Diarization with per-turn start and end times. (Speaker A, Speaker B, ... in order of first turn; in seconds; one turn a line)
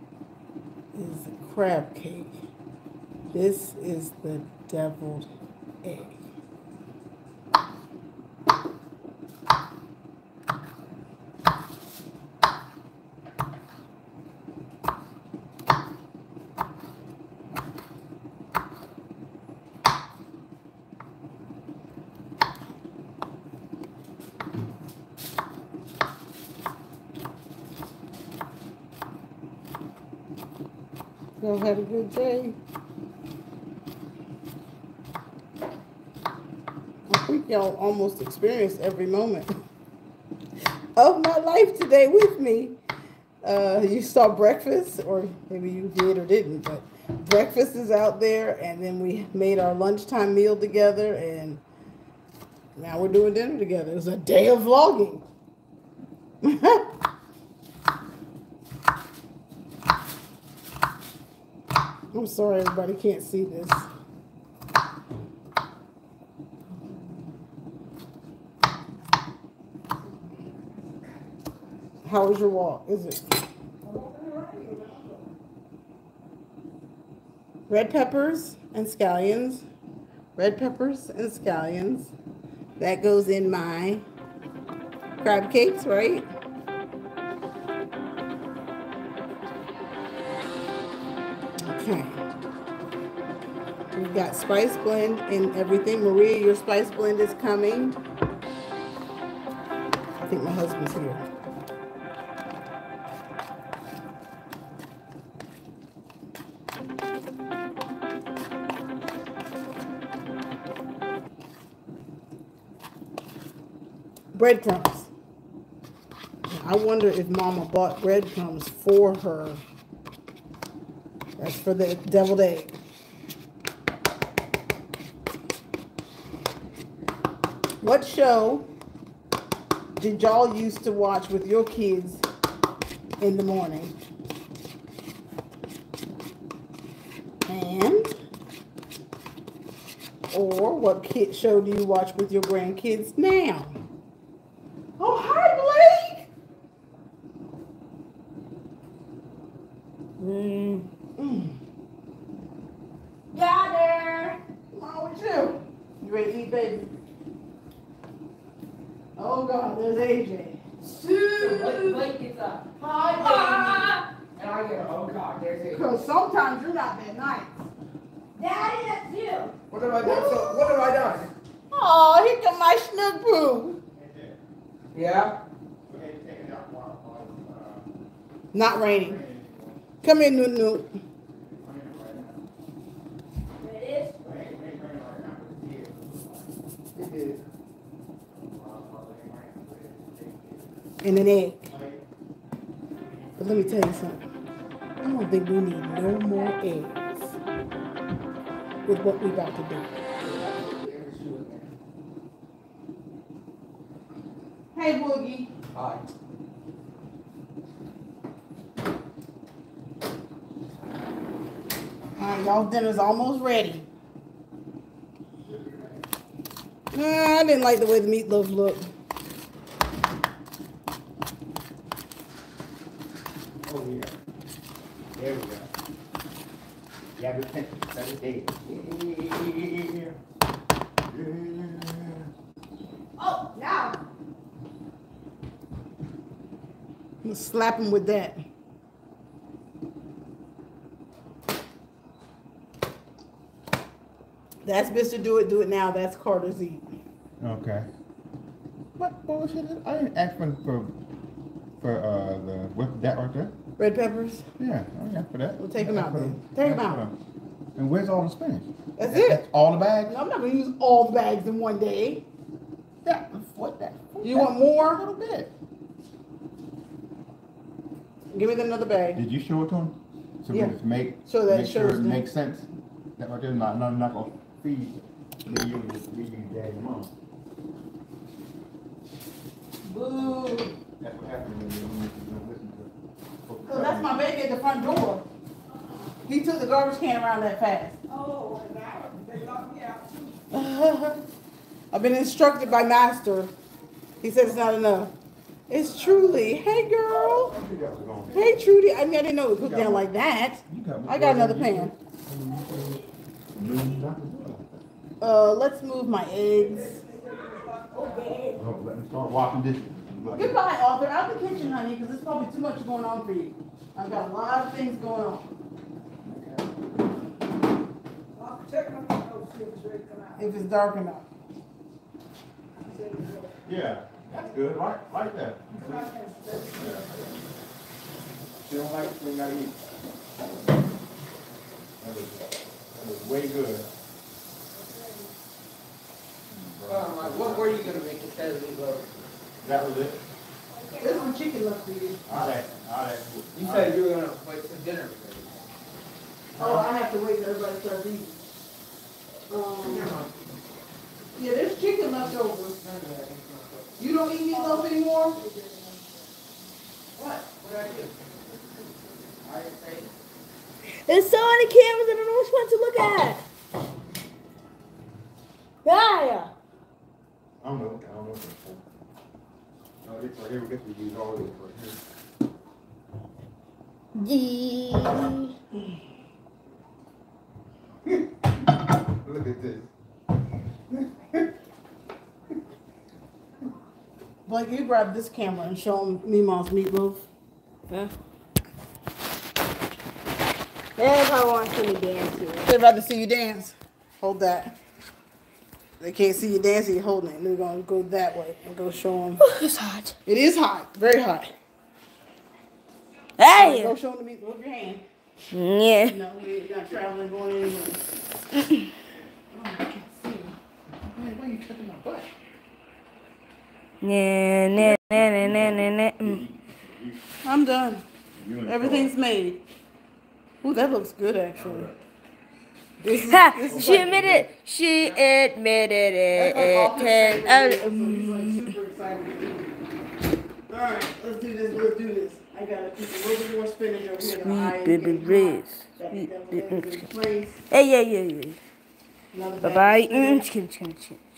Speaker A: 0.9-2.4
Speaker A: 3.3-5.3
Speaker A: 5.8-6.2
Speaker A: 31.4-32.6
Speaker A: 37.1-39.6
Speaker A: 41.0-42.8
Speaker A: 43.4-51.6
Speaker A: 52.8-55.2
Speaker A: 56.4-56.9
Speaker A: 62.1-63.9
Speaker A: 72.0-73.3
Speaker B: 73.8-75.2
Speaker A: 77.7-79.6
Speaker A: 80.3-82.1
Speaker A: 82.8-84.0
Speaker A: 85.2-86.3
Speaker A: 91.6-92.2
Speaker A: 93.9-98.0
Speaker A: 100.2-101.2
Speaker A: 114.3-115.1
Speaker A: 116.5-119.6
Speaker A: 121.4-122.7
Speaker A: 127.8-128.7
Speaker A: 129.9-132.2
Speaker A: 133.2-133.9
Speaker A: 137.4-138.1
Speaker A: 140.3-143.8
Speaker A: 145.0-146.3
Speaker C: 150.2-150.9
Speaker A: 151.2-151.5
Speaker C: 153.3-154.4
Speaker A: 154.7-156.9
Speaker A: 159.2-162.1
Speaker D: 161.4-162.8
Speaker C: 163.2-164.0
Speaker A: 163.2-163.7
Speaker D: 164.3-166.0
Speaker A: 165.7-167.7
Speaker C: 168.4-169.5
Speaker D: 169.7-171.3
Speaker B: 169.9-171.1
Speaker A: 170.0-170.5
Speaker A: 171.7-173.8
Speaker E: 173.9-174.4
Speaker D: 174.9-175.4
Speaker E: 175.8-179.8
Speaker A: 178.5-179.2
Speaker A: 180.0-181.0
Speaker E: 181.3-182.5
Speaker C: 183.6-184.1
Speaker E: 184.2-187.4
Speaker E: 188.3-190.7
Speaker A: 191.0-191.7
Speaker E: 191.7-192.0
Speaker A: 193.4-194.2
Speaker A: 195.0-197.2
Speaker A: 198.8-200.0
Speaker D: 200.2-201.7
Speaker A: 204.7-205.5
Speaker D: 205.7-206.0
Speaker A: 212.2-213.9
Speaker A: 216.9-218.9
Speaker E: 223.7-224.1
Speaker E: 225.1-225.7
Speaker E: 227.2-230.2
Speaker E: 231.1-232.3
Speaker C: 233.2-233.9
Speaker A: 237.2-238.4
Speaker A: 244.6-246.8
Speaker E: 247.4-247.9
Speaker E: 249.0-251.0
Speaker E: 251.8-253.5
Speaker A: 253.8-254.5
Speaker E: 254.6-257.1
Speaker A: 255.6-257.0
Speaker E: 257.8-260.1
Speaker A: 259.0-259.4
Speaker A: 260.1-262.2
Speaker E: 263.0-265.5
Speaker A: 264.2-265.0
Speaker A: 268.3-269.2
Speaker E: 269.1-277.1
Speaker A: 271.2-272.2
Speaker A: 279.8-280.8
Speaker E: 281.0-282.9
Speaker E: 283.4-284.2
Speaker A: 283.6-285.3
Speaker A: 286.2-288.0
Speaker B: 288.1-290.5
Speaker A: 290.5-291.2
Speaker A: 291.9-293.5
Speaker A: 294.2-295.1
Speaker A: 295.7-297.5
Speaker E: 296.1-296.5
Speaker B: 297.2-298.5
Speaker E: 297.5-298.5
Speaker A: 298.3-301.9
Speaker E: 299.6-300.1
Speaker E: 300.6-303.0
Speaker E: 303.5-304.8
Speaker A: 305.2-307.0
Speaker B: 306.5-308.6
Speaker C: 308.0-308.6
Speaker E: 308.6-310.5
Speaker A: 310.3-315.5
Speaker E: 316.2-316.6
Speaker B: 318.3-320.5
Speaker A: 320.4-321.3
Speaker B: 322.8-323.6
Speaker E: 323.6-326.1
Speaker B: 325.7-327.3
Speaker E: 326.8-327.2
Speaker E: 328.6-329.8
Speaker E: 332.0-333.9
Speaker B: 334.7-335.3
Speaker E: 336.5-337.8
Speaker D: 336.9-339.2
Speaker E: 339.6-340.2
Speaker A: 341.0-342.2
Speaker E: 342.3-344.0
Speaker D: 343.5-345.6
Speaker A: 346.6-348.4
Speaker A: 349.5-350.2
Speaker D: 349.8-350.3
Speaker A: 351.4-352.8
Speaker D: 352.2-354.1
Speaker A: 354.0-355.4
Speaker B: 354.5-356.2
Speaker D: 357.1-358.3
Speaker D: 359.4-360.1
Speaker C: 361.1-363.4
Speaker C: 365.9-366.5
Speaker E: 367.6-368.8
Speaker E: 370.0-372.0
Speaker C: 374.2-375.5
Speaker E: 379.1-379.9
Speaker A: 384.4-387.3
Speaker C: 391.0-392.6
Speaker A: 392.6-394.7
Speaker A: 396.0-399.4
Speaker C: 399.4-400.1
Speaker A: 400.2-401.5
Speaker C: 403.4-403.9
Speaker A: 403.5-405.0
Speaker C: 405.5-406.2
Speaker A: 406.0-408.1
Speaker A: 409.5-410.6
Speaker E: 411.1-412.3
Speaker C: 414.0-416.4
Speaker E: 414.8-417.2
Speaker A: 417.4-418.0
Speaker E: 418.4-419.1
Speaker A: 418.6-419.6
Speaker A: 420.6-421.9
Speaker E: 421.5-422.0
Speaker A: 423.0-424.4
Speaker C: 423.1-428.6
Speaker E: 423.6-424.5
Speaker A: 426.3-429.8
Speaker A: 430.7-437.6
Speaker C: 434.2-436.9
Speaker C: 437.7-438.6
Speaker A: 439.3-440.4
Speaker C: 439.6-441.2